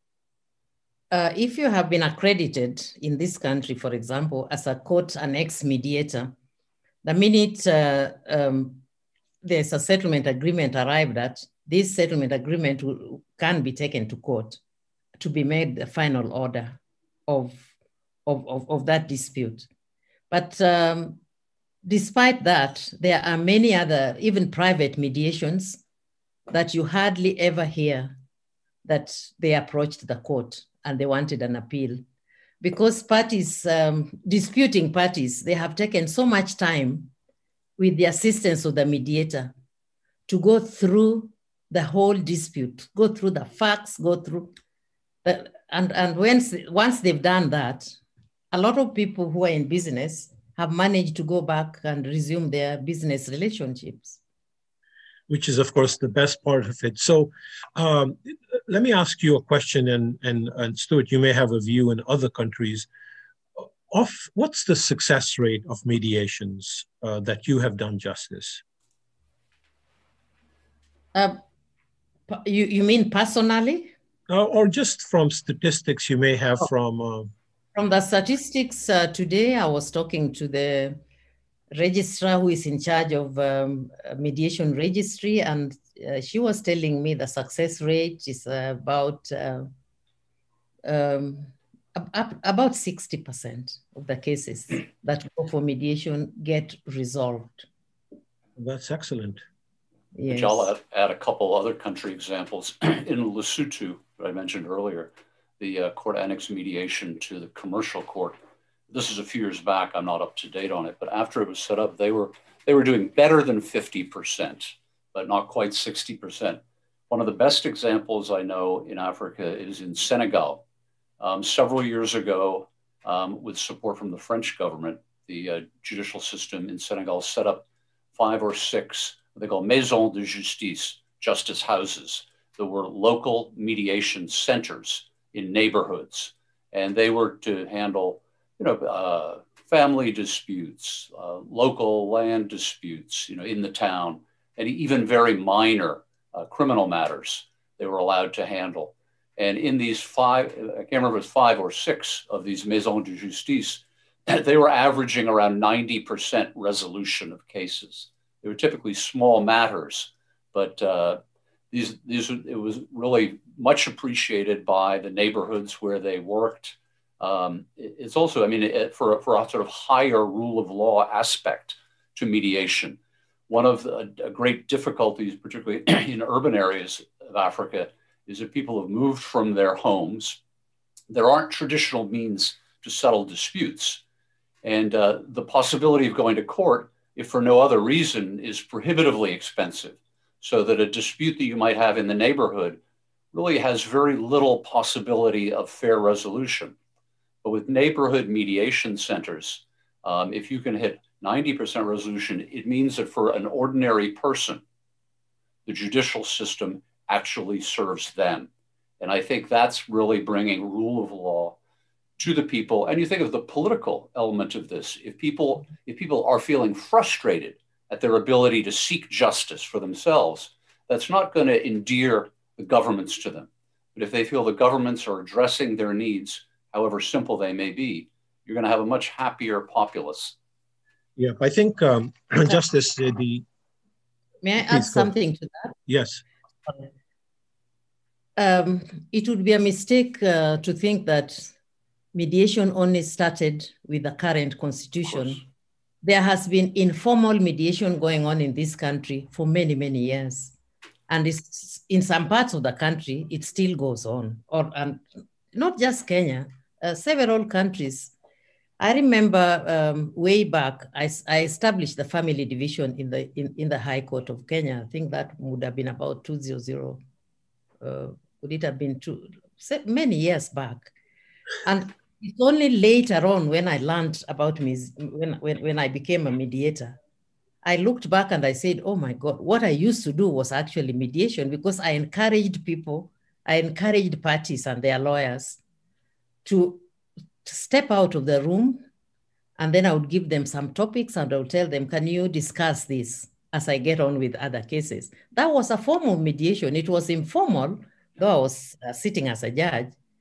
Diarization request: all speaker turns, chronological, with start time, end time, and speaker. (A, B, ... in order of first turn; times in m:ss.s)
0:01.1-0:06.3 A
0:07.0-0:08.8 A
0:09.4-0:14.6 A
0:15.2-0:17.7 A
0:18.3-0:19.7 A
0:20.3-0:21.2 A
0:21.8-0:25.8 A
0:26.5-0:28.2 A
0:28.8-0:32.0 A
0:32.6-0:37.1 A
0:37.8-0:39.5 A
0:40.3-0:44.5 A
0:45.2-0:48.0 A
0:48.5-0:54.2 A
0:55.3-1:02.9 B
1:03.6-1:08.6 B
1:11.1-1:11.4 A
1:12.3-1:13.9 A
1:14.3-1:17.3 B
1:17.8-1:21.0 A
1:21.7-1:29.7 A
1:30.8-1:37.7 A
1:38.6-1:39.4 B
1:40.2-1:40.7 A
1:40.3-1:48.4 C
1:48.9-2:00.6 C
2:01.2-2:07.6 C
2:08.2-2:41.2 C
2:41.7-2:53.0 C
2:53.5-3:00.4 C
3:01.1-3:04.0 C
3:04.6-3:12.8 C
3:13.3-3:16.8 C
3:17.4-3:24.6 C
3:25.7-3:28.5 C
3:29.0-3:31.6 C
3:32.2-3:50.4 C
3:51.2-3:53.5 B
3:54.4-3:55.8 A
3:54.7-3:55.1 B
3:55.9-3:56.2 B
3:58.4-4:01.5 A
4:02.1-4:05.4 A
4:06.0-4:10.6 A
4:11.1-4:18.1 A
4:18.8-4:27.0 A
4:27.8-4:30.9 A
4:31.6-4:37.0 A
4:37.6-4:45.6 A
4:46.4-4:46.8 A
4:47.4-4:48.8 A
4:49.6-4:59.9 A